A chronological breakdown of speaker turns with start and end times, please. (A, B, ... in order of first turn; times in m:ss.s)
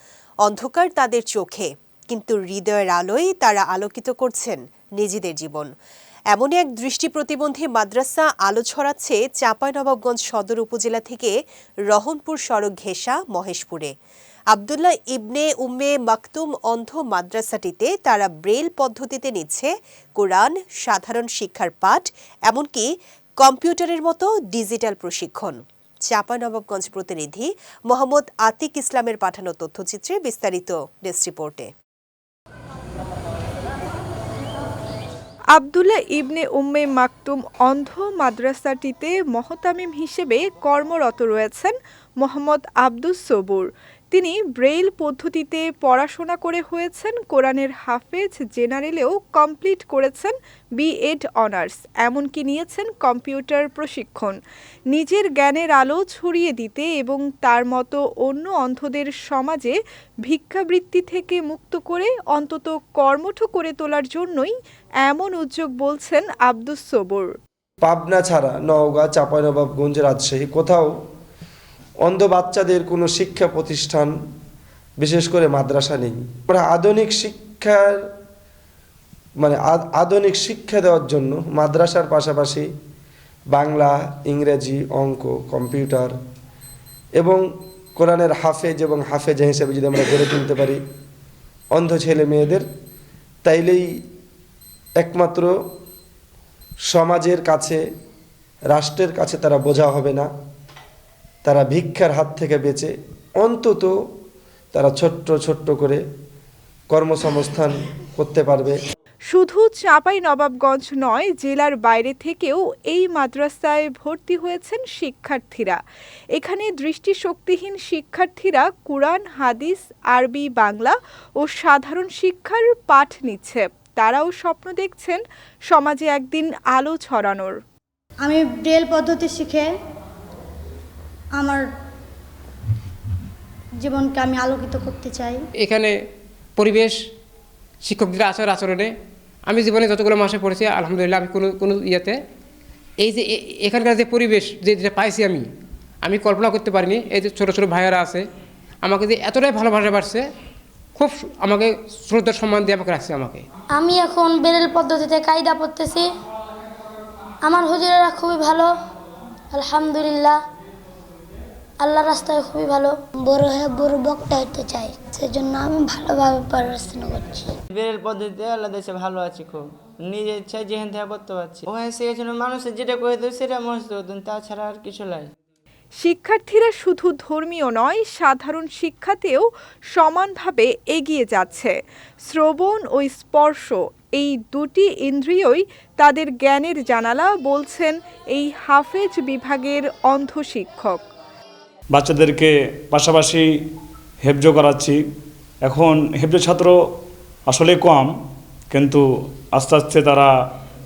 0:00.5-0:05.7 A
0:06.3-0:11.3 A
0:11.9-0:13.9 A
0:14.5-0:22.8 A
0:23.4-0:25.6 A
0:26.1-0:31.7 A
0:35.5-0:54.4 B
0:54.9-1:07.4 B
1:07.8-1:10.9 C
1:12.1-1:14.1 C
1:15.0-1:18.0 C
1:19.4-1:22.7 C
1:23.5-1:26.1 C
1:28.0-1:30.8 C
1:31.7-1:32.7 C
1:33.4-1:33.8 C
1:35.0-1:35.5 C
1:36.9-1:37.8 C
1:38.7-1:40.3 C
1:41.4-1:43.9 C
1:44.7-1:46.0 C
1:46.9-1:48.8 C
1:49.3-1:55.8 B
1:56.3-2:07.6 B
2:08.2-2:09.7 D
2:13.8-2:15.4 D
2:15.6-2:15.9 E
2:16.6-2:17.0 E
2:17.8-2:18.9 E
2:19.5-2:22.2 E
2:23.0-2:25.5 E
2:26.0-2:28.2 E
2:28.8-2:30.3 E
2:31.0-2:33.4 E
2:33.7-2:36.1 F
2:37.4-2:38.7 F
2:39.5-2:40.4 F
2:41.8-2:47.5 F
2:47.7-2:55.3 G
2:56.0-3:11.0 B
3:12.0-3:13.4 H
3:14.2-3:14.9 H
3:15.7-3:16.7 H
3:17.5-3:18.1 H
3:18.7-3:19.0 H
3:19.6-3:20.3 H